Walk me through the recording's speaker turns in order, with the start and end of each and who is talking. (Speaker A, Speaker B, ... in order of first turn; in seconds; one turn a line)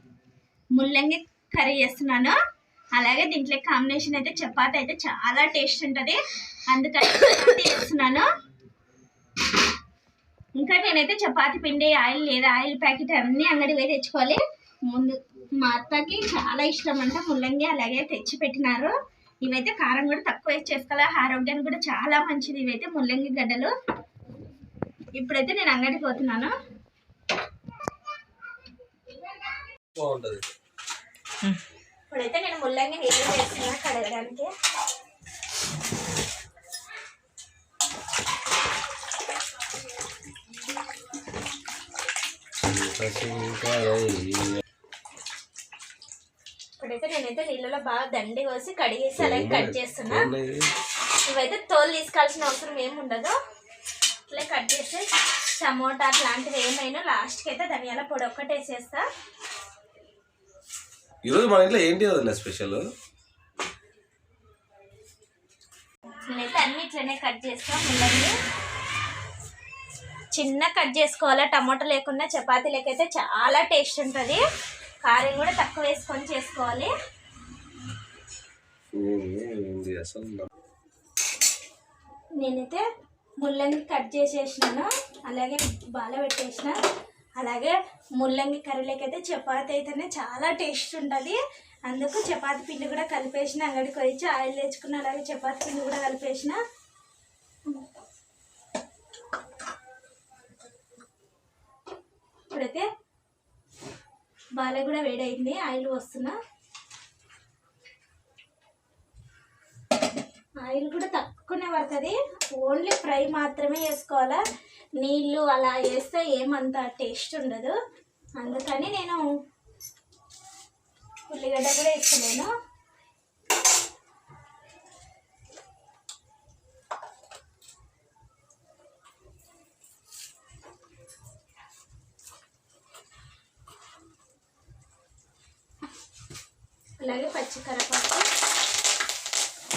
Speaker A: 0.7-2.4
Speaker A: 2.9-8.3
Speaker A: 10.6-23.7
Speaker A: 25.2-26.5
Speaker B: 30.0-30.5
Speaker A: 32.1-34.5
Speaker B: 42.6-44.6
Speaker A: 46.8-50.3
Speaker B: 49.2-50.7
Speaker A: 51.3-53.4
Speaker A: 54.3-59.1
Speaker B: 61.2-62.9
Speaker A: 66.3-68.3
Speaker A: 70.3-74.4
Speaker A: 75.0-76.9
Speaker B: 79.0-80.5
Speaker A: 82.4-82.8
Speaker A: 83.4-86.8
Speaker A: 87.4-96.6
Speaker A: 102.5-102.9
Speaker A: 104.6-106.4
Speaker A: 110.6-114.4
Speaker A: 115.0-117.8
Speaker A: 118.4-119.2
Speaker A: 121.3-122.5
Speaker A: 137.0-138.2